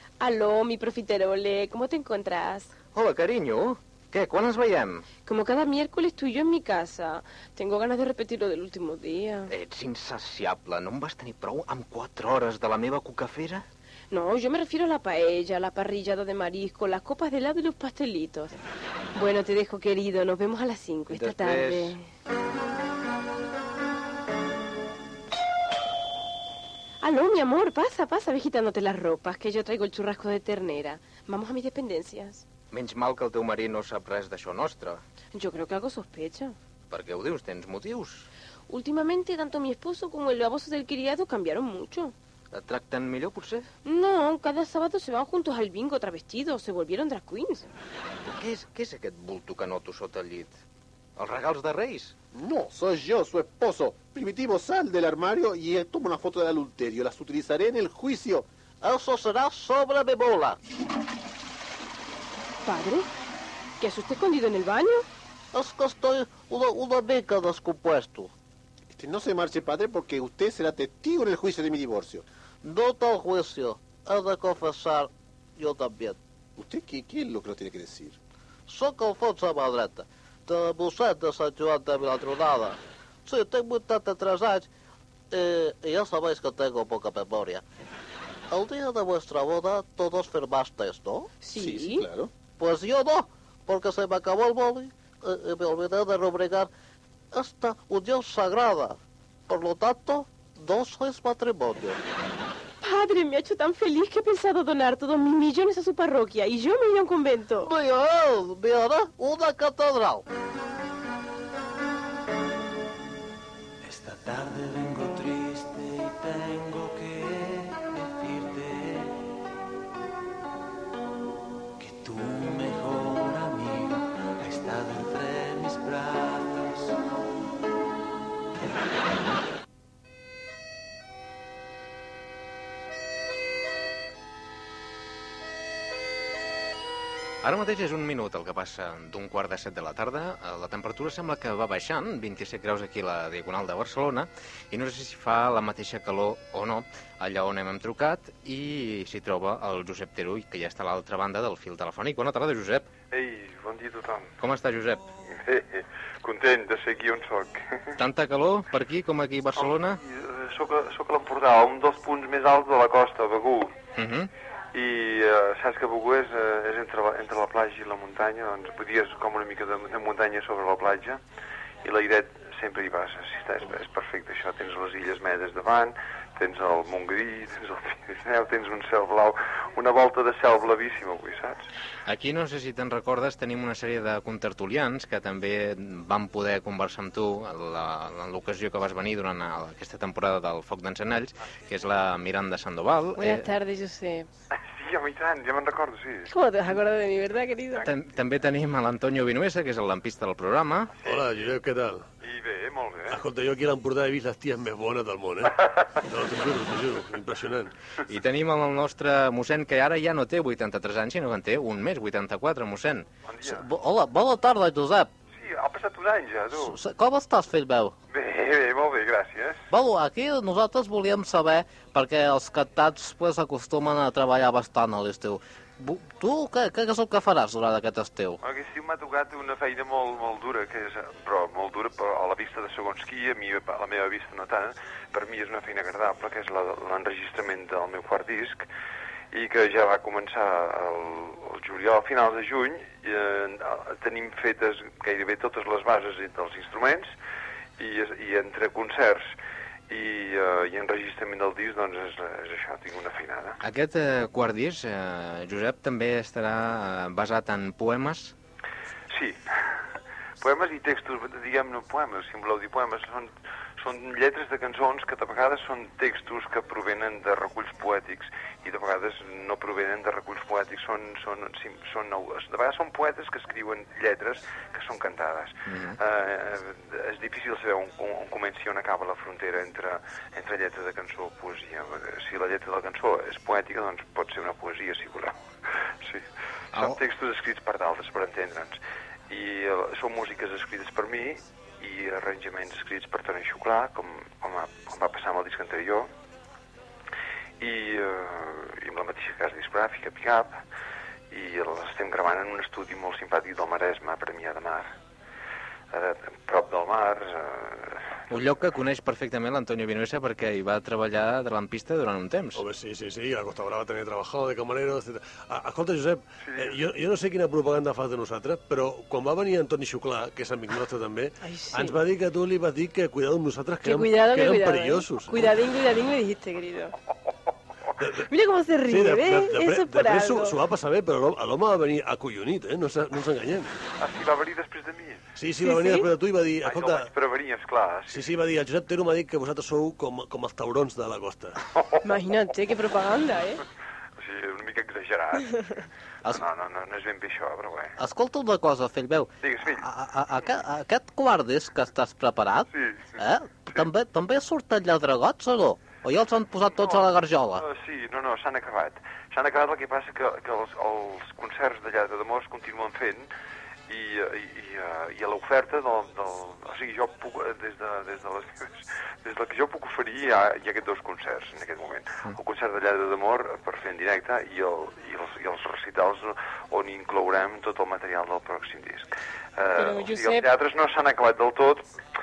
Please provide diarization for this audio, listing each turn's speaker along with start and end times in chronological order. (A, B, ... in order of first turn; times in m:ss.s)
0:00.2-0:02.7 A
0:02.9-0:05.1 B
0:05.2-0:09.5 A
0:09.5-0:13.7 B
0:14.1-0:18.6 A
0:19.1-0:22.0 A
0:21.1-0:21.9 B
0:27.0-0:32.4 A
0:32.7-0:35.0 B
0:35.3-0:36.5 A
0:36.9-0:38.3 B
0:38.7-0:42.1 A
0:42.5-0:43.7 B
0:43.8-0:47.7 A
0:48.2-0:50.5 B
0:51.2-0:52.2 B
0:52.3-0:58.5 C
0:58.8-1:00.6 D
1:02.6-1:03.1 A
1:03.8-1:05.0 A
1:05.5-1:08.3 D
1:08.9-1:12.2 C
1:12.6-1:16.2 D
1:16.6-1:18.2 C
1:18.7-1:24.7 D
1:25.3-1:27.6 D
1:28.5-1:31.3 D
1:31.4-1:32.1 A
1:31.5-1:32.3 C
1:32.6-1:36.7 D
1:37.3-1:39.0 D
1:39.5-1:42.0 D
1:42.8-1:47.7 A
1:47.6-1:50.2 D
1:53.8-1:59.2 E
2:01.8-2:07.1 E
2:17.4-2:32.9 B
2:33.1-2:34.3 F
2:34.4-2:35.0 B
2:35.4-2:37.9 F
2:38.0-2:40.0 B
2:39.6-2:43.7 F
2:44.0-2:44.3 B
2:44.7-2:51.2 F
2:51.8-3:01.6 F
3:02.1-3:13.5 B
3:13.2-3:14.3 A
3:14.5-3:16.3 F
3:16.3-3:17.9 A
3:17.8-3:20.9 B
3:21.0-3:22.0 G
3:22.2-3:23.2 F
3:23.1-3:27.7 G
3:28.1-3:33.1 B
3:33.3-3:33.6 F
3:33.4-3:35.1 D
3:35.4-3:36.8 F
3:36.5-3:37.9 D
3:38.1-3:39.6 F
3:39.7-3:48.4 D
3:48.4-3:58.6 F
3:59.3-4:07.1 F
4:07.8-4:09.3 F
4:09.9-4:13.6 F
4:13.6-4:18.3 B
4:19.1-4:19.6 F
4:20.4-4:45.3 F
4:35.7-4:36.0 B
4:46.7-4:48.8 F
4:49.3-4:56.1 F
4:57.6-5:00.6 F
5:01.3-5:04.9 F
5:05.9-5:08.0 F
5:08.3-5:12.6 B
5:12.5-5:25.5 G
5:16.4-5:16.8 F
5:21.4-5:22.0 A
5:23.8-5:26.9 A
5:28.3-5:30.6 A
5:28.9-5:33.8 G
5:34.0-5:35.2 F
5:35.4-5:37.1 G
5:35.6-5:36.1 A
5:36.6-5:38.3 F
5:38.1-5:41.6 G
5:42.0-5:43.6 A
5:44.2-5:45.6 F
5:46.3-5:47.9 F
5:48.0-5:57.6 D
5:49.4-5:49.9 F
5:52.7-5:53.0 F
5:57.6-6:03.3 F
6:03.9-6:21.8 F
6:19.7-6:20.5 A